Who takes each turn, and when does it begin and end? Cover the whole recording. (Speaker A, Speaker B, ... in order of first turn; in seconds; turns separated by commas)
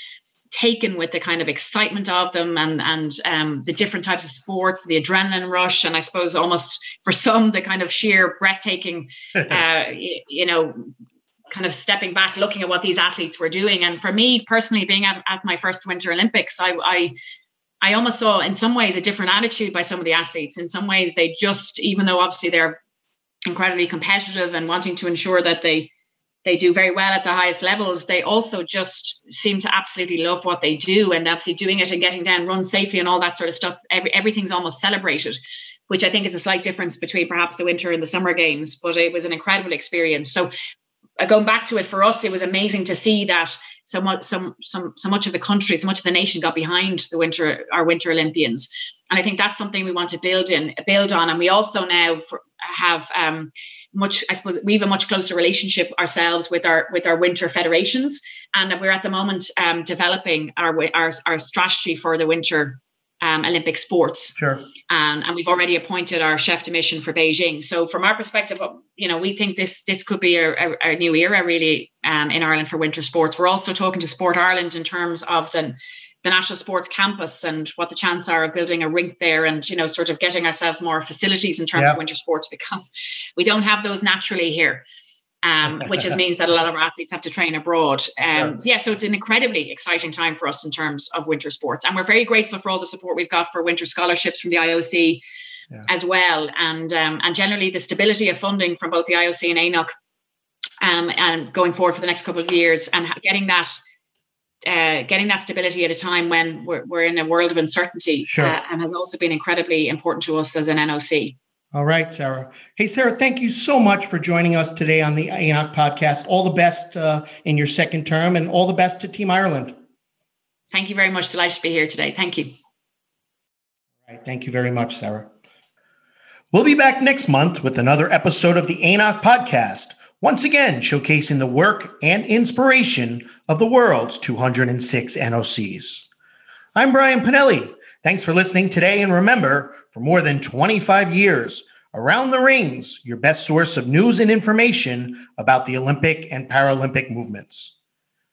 Speaker A: 0.5-10.9, Speaker A: 11.5-17.1, Speaker A: 17.8-22.8, Speaker A: 23.5-25.9, Speaker A: 26.4-40.5, Speaker A: 41.2-64.4, Speaker B: 64.4-64.6, Speaker A: 64.9-84.8, Speaker A: 85.4-95.2, Speaker A: 95.8-99.9, Speaker A: 100.8-103.8, Speaker A: 104.6-111.3, Speaker B: 108.3-108.6, Speaker B: 111.7-119.7, Speaker A: 120.7-122.5, Speaker B: 124.1-125.3, Speaker B: 126.5-136.1, Speaker B: 136.8-147.7